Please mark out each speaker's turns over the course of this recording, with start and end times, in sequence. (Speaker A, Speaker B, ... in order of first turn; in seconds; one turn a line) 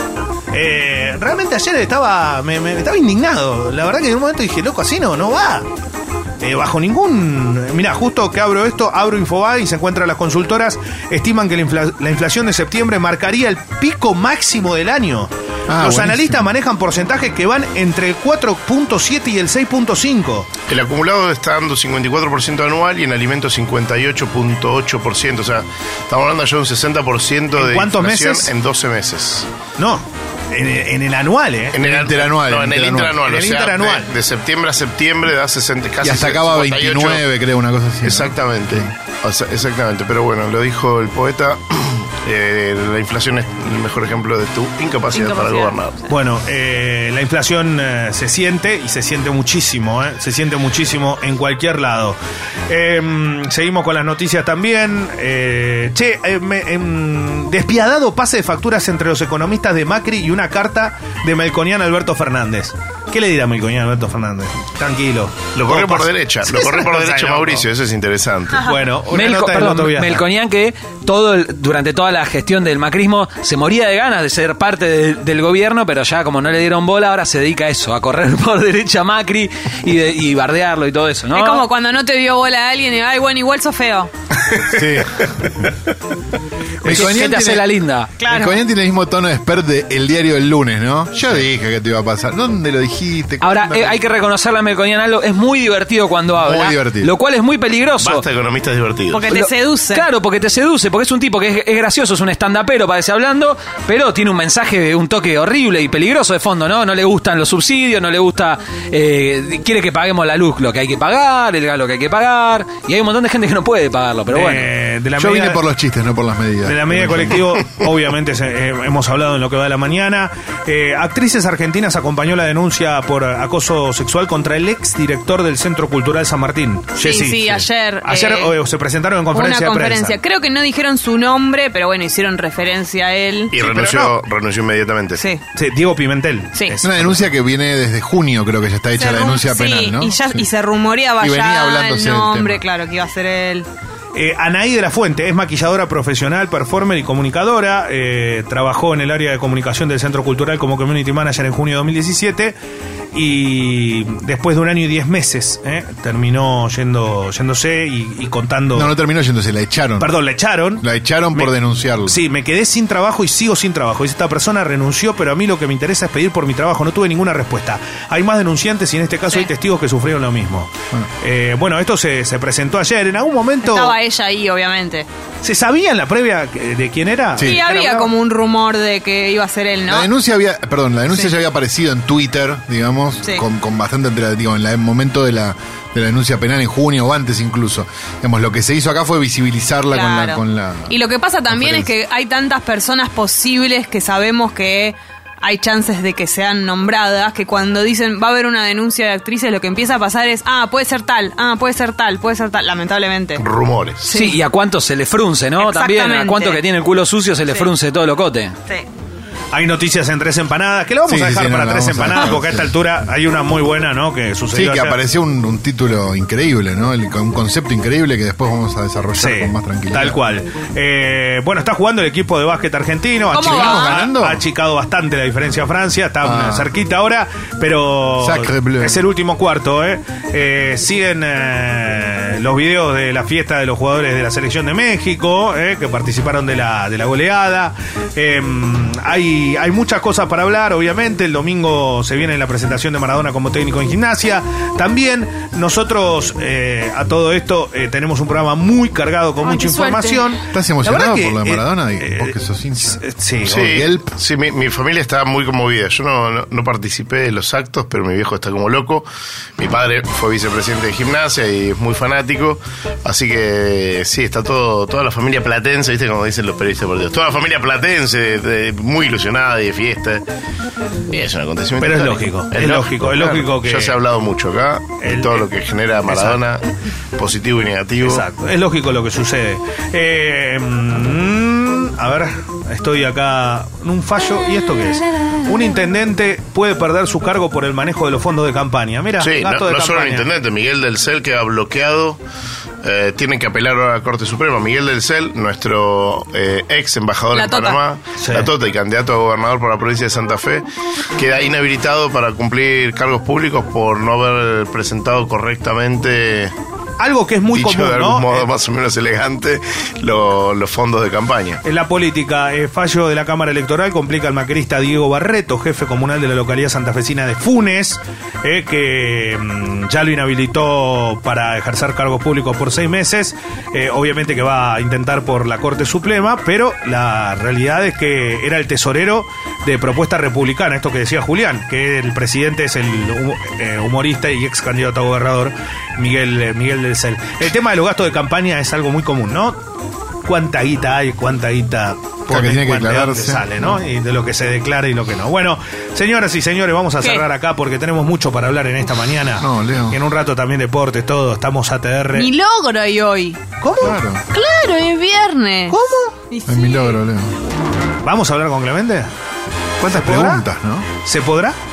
Speaker A: 0.5-5.7
Speaker A: 6.4-20.5
Speaker B: 15.7-16.5
Speaker C: 20.7-29.5
Speaker A: 27.5-28.5
Speaker A: 29.8-31.8
Speaker C: 31.7-37.2
Speaker B: 31.8-33.2
Speaker A: 33.2-34.1
Speaker B: 36.0-38.9
Speaker C: 38.0-46.0
Speaker D: 45.1-45.8
Speaker A: 46.1-52.2
Speaker A: 52.7-67.7
Speaker C: 65.6-68.7
Speaker A: 68.6-70.2
Speaker E: 69.1-81.7
Speaker D: 81.3-84.1
Speaker B: 84.7-85.6
Speaker B: 86.8-87.6
Speaker E: 86.8-88.1
Speaker D: 88.2-88.6
Speaker B: 88.2-94.0
Speaker E: 93.4-98.2
Speaker B: 96.3-97.1
Speaker C: 98.0-99.3
Speaker D: 99.1-100.0
Speaker E: 99.3-114.7
Speaker A: 114.3-115.6
Speaker B: 115.2-117.5
Speaker A: 116.6-130.2
Speaker D: 127.0-128.5
Speaker D: 129.3-133.9
Speaker C: 133.5-135.2
Speaker A: 133.8-134.1
Speaker D: 135.2-135.4
Speaker A: 135.5-137.3
Speaker B: 136.8-140.4
Speaker D: 138.9-143.7
Speaker B: 141.2-142.6
Speaker A: 144.1-152.5
Speaker A: 153.1-158.9
Speaker B: 158.7-160.1
Speaker A: 160.0-161.5
Speaker B: 160.8-162.2
Speaker A: 162.0-173.9
Speaker D: 173.6-175.1
Speaker A: 175.4-178.1
Speaker B: 177.4-177.6
Speaker D: 177.4-180.1
Speaker B: 179.9-191.0
Speaker D: 189.9-203.4
Speaker B: 191.5-191.9
Speaker C: 203.4-204.1
Speaker D: 204.0-204.4
Speaker E: 204.1-208.5
Speaker D: 205.6-206.6
Speaker A: 209.5-215.0
Speaker B: 211.1-212.7
Speaker B: 214.5-220.2
Speaker A: 219.2-253.8
Speaker D: 223.3-224.0
Speaker B: 223.4-224.4
Speaker B: 226.2-226.7
Speaker B: 228.2-229.0
Speaker D: 249.4-250.4
Speaker B: 250.5-254.1
Speaker C: 253.5-259.1
Speaker C: 259.6-270.2
Speaker C: 271.1-276.6
Speaker A: 271.8-274.0
Speaker A: 275.0-275.5
Speaker A: 276.0-276.4
Speaker C: 277.2-278.2
Speaker A: 278.0-290.3
Speaker C: 289.2-292.2
Speaker C: 292.8-300.6
Speaker D: 297.3-297.8
Speaker A: 298.2-298.5
Speaker C: 301.2-306.5
Speaker A: 307.0-308.5
Speaker C: 307.5-311.6
Speaker A: 311.6-339.6
Speaker A: 340.2-352.3
Speaker B: 342.3-343.8
Speaker B: 349.4-350.0
Speaker D: 352.1-353.4
Speaker A: 353.6-354.0
Speaker B: 353.8-354.2
Speaker D: 354.3-355.8
Speaker A: 355.7-356.1
Speaker D: 356.3-357.0
Speaker B: 356.5-357.4
Speaker A: 358.0-359.1
Speaker B: 359.8-360.9
Speaker A: 359.9-360.4
Speaker A: 361.0-361.5